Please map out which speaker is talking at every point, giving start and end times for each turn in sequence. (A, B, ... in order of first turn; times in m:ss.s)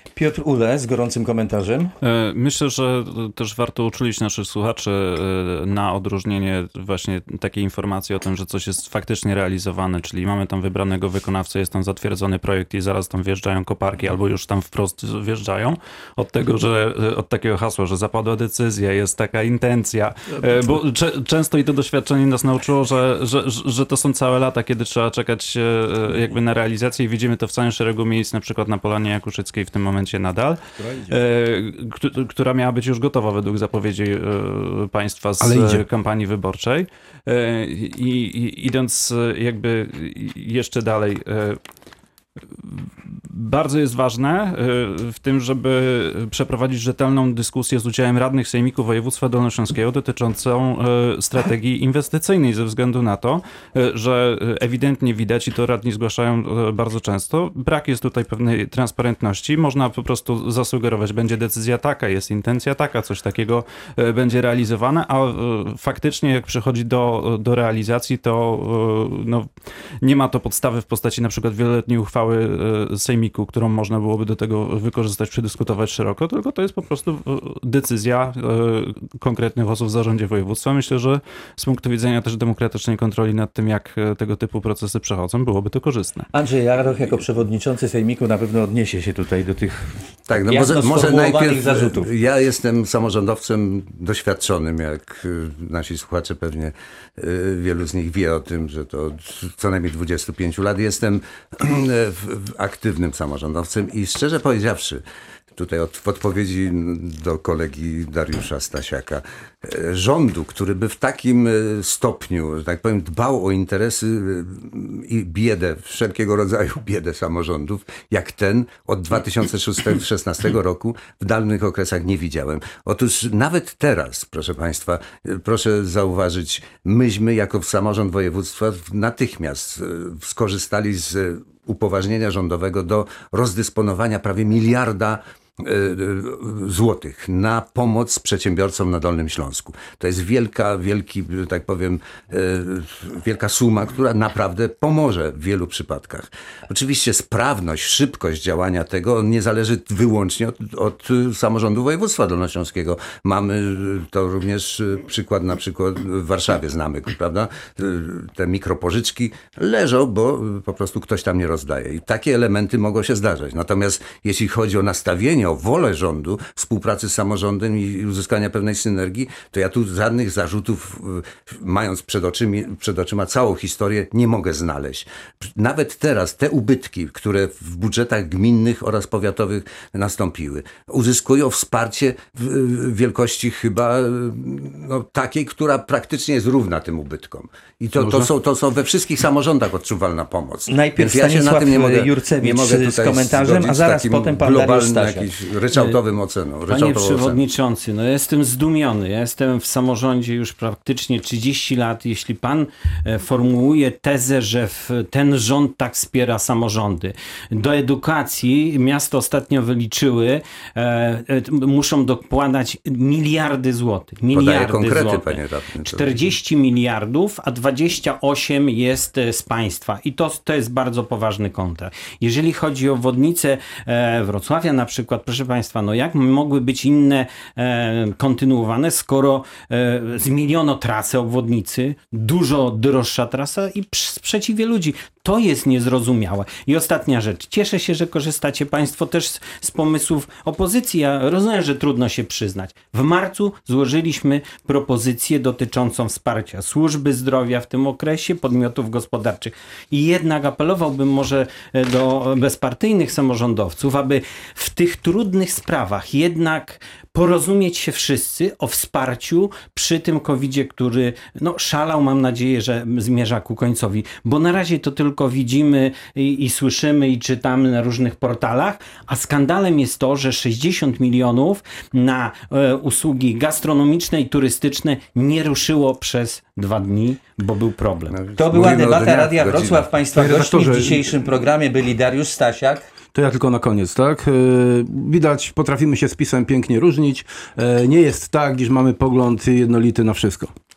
0:00.2-0:01.9 A
0:02.0-0:41.6 B
0:30.8-0:31.2 C
0:35.4-0:35.8 C
0:42.5-1:09.5 B
1:10.0-1:26.3 B
1:26.3-1:32.1 A
1:30.3-1:45.0 D
1:45.6-3:17.4 D
3:08.0-3:08.3 C
3:10.7-3:15.3 A
3:15.7-3:16.0 E
3:16.7-4:38.2 E
3:34.3-3:36.3 D
4:38.1-4:39.9 D
4:38.4-4:42.9 A
4:40.1-4:41.1 C
4:43.1-4:50.5 C